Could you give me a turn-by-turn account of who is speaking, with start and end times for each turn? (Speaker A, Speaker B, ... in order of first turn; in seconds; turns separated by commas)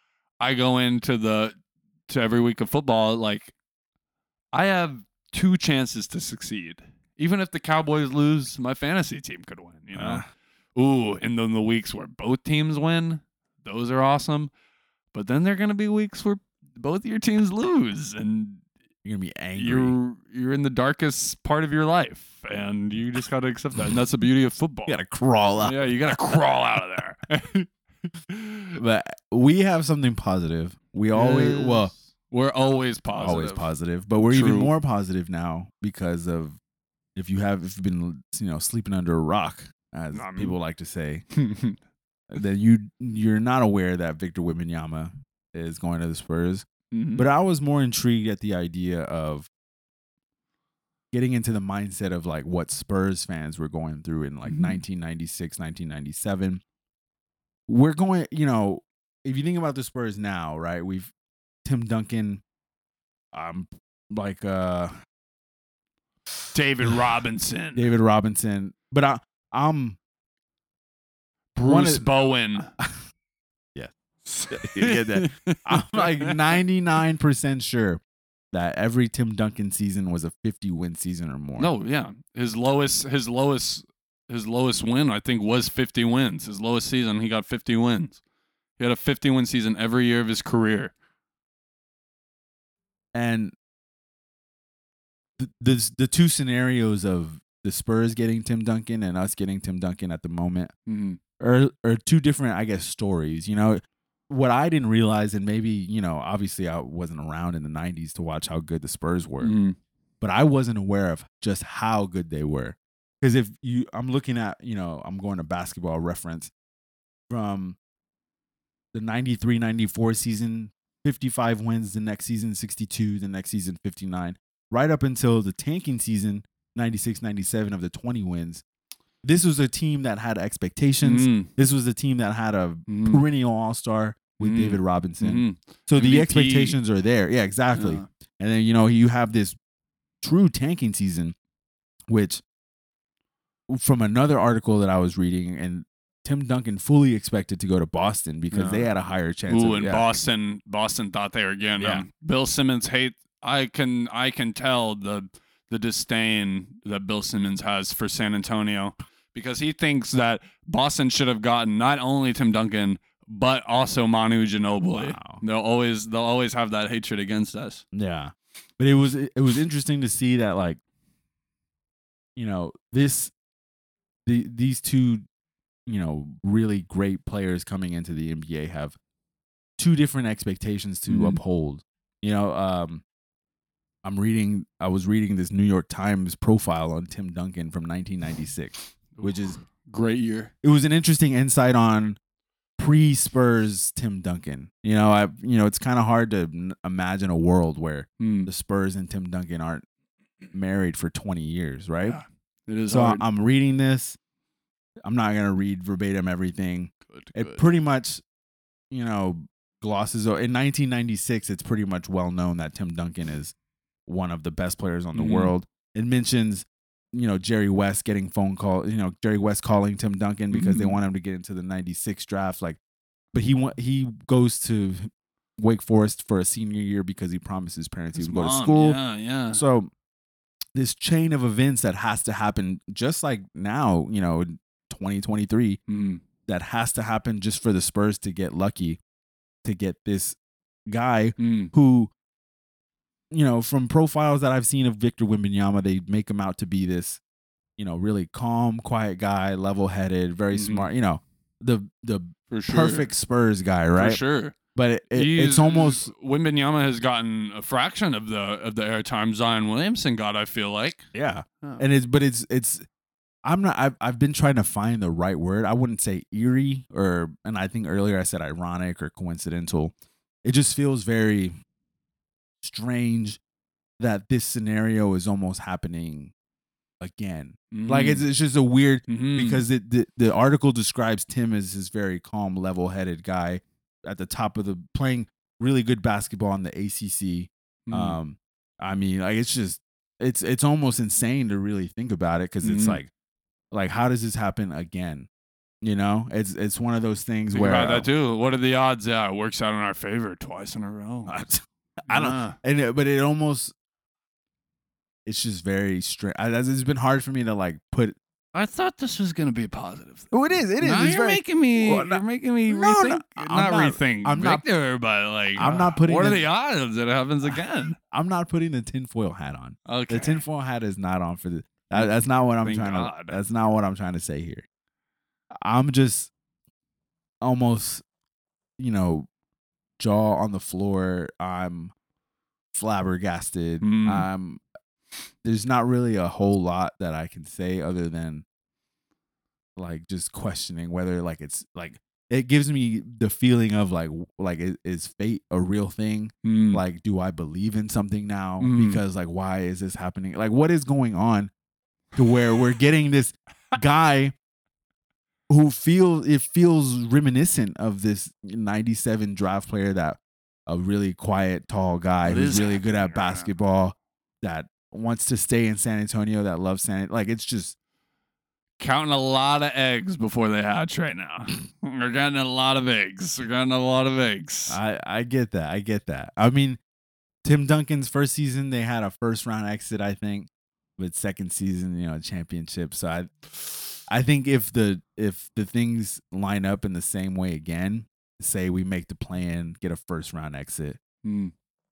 Speaker A: 0.4-1.6, Speaker A: 2.1-3.5, Speaker A: 4.5-10.2, Speaker B: 9.9-10.3, Speaker A: 10.8-14.5, Speaker A: 15.1-18.6, Speaker B: 19.1-20.0, Speaker A: 19.6-25.0, Speaker B: 24.9-25.9, Speaker A: 25.6-27.7, Speaker A: 28.3-28.8, Speaker B: 28.8-31.9, Speaker A: 31.1-33.7, Speaker B: 33.2-36.6, Speaker A: 34.2-34.7, Speaker B: 37.2-41.2, Speaker A: 40.1-40.6, Speaker A: 41.3-41.8, Speaker B: 42.3-49.5, Speaker A: 46.9-47.2, Speaker B: 51.1-56.6, Speaker A: 54.5-54.8, Speaker B: 57.7-61.1, Speaker B: 61.6-62.4, Speaker B: 63.3-64.9, Speaker A: 66.5-67.9, Speaker B: 67.8-70.0, Speaker A: 71.5-72.7, Speaker B: 71.6-72.1, Speaker B: 73.8-78.0, Speaker A: 74.4-76.6, Speaker B: 78.5-81.7, Speaker A: 81.6-88.2, Speaker A: 88.8-90.9, Speaker B: 93.1-93.5, Speaker B: 95.4-100.7, Speaker A: 100.9-101.2, Speaker B: 101.4-109.5, Speaker A: 109.4-109.8, Speaker B: 110.2-116.5, Speaker B: 117.3-117.8, Speaker B: 118.9-128.6, Speaker B: 129.2-139.6, Speaker A: 131.0-131.5, Speaker A: 132.9-133.2, Speaker A: 134.4-136.8, Speaker A: 137.7-138.1, Speaker B: 140.2-141.3, Speaker B: 142.1-142.4, Speaker B: 143.7-150.2, Speaker A: 148.5-148.9, Speaker A: 149.5-167.8, Speaker B: 151.8-152.1, Speaker B: 164.9-165.4, Speaker B: 167.9-170.8, Speaker B: 172.4-173.3, Speaker B: 174.3-175.2, Speaker B: 175.9-179.0, Speaker B: 179.8-183.0, Speaker A: 181.1-181.4, Speaker B: 184.0-189.6, Speaker A: 189.2-190.5, Speaker B: 190.6-192.2, Speaker B: 192.8-199.8, Speaker A: 198.2-198.5, Speaker B: 200.5-202.2, Speaker A: 202.1-203.2, Speaker B: 202.9-204.2, Speaker B: 205.1-208.2, Speaker A: 207.1-207.6, Speaker B: 208.9-213.6, Speaker B: 214.1-222.8, Speaker A: 215.1-215.5, Speaker A: 220.5-221.0, Speaker B: 223.3-229.0, Speaker A: 228.2-229.6, Speaker B: 229.5-229.9, Speaker B: 230.8-235.8, Speaker A: 235.9-236.2, Speaker B: 236.5-239.0, Speaker B: 239.6-242.1, Speaker A: 241.4-241.7, Speaker B: 243.3-247.2, Speaker B: 247.8-254.2, Speaker A: 250.5-250.9, Speaker A: 252.5-253.1, Speaker A: 254.0-254.6, Speaker B: 254.8-256.1, Speaker A: 255.1-261.1, Speaker B: 261.1-262.9, Speaker B: 263.4-269.9, Speaker B: 270.4-271.6, Speaker B: 272.6-273.4, Speaker B: 274.0-276.3, Speaker B: 277.0-293.1, Speaker A: 277.7-278.2, Speaker A: 279.1-279.6, Speaker A: 287.9-288.2, Speaker A: 292.6-293.0, Speaker B: 293.7-295.3, Speaker B: 295.8-298.1, Speaker A: 297.5-301.4, Speaker B: 301.3-303.7, Speaker A: 302.1-302.6, Speaker B: 305.2-308.1, Speaker A: 308.5-310.3, Speaker B: 310.3-314.6, Speaker A: 310.8-318.0, Speaker B: 315.6-316.5, Speaker B: 317.5-324.6, Speaker A: 319.9-320.4, Speaker A: 322.6-323.4, Speaker B: 325.6-326.3, Speaker B: 327.4-328.0, Speaker B: 328.8-329.3, Speaker B: 330.0-331.9, Speaker B: 332.7-334.6, Speaker A: 333.8-334.3, Speaker B: 335.4-338.4, Speaker B: 339.8-351.5, Speaker A: 346.4-346.8, Speaker A: 348.6-349.0, Speaker B: 352.1-354.4, Speaker B: 355.5-367.8, Speaker A: 362.2-363.5, Speaker A: 368.8-374.8, Speaker B: 374.7-376.8, Speaker B: 377.4-383.3, Speaker B: 384.1-391.0, Speaker A: 391.2-391.5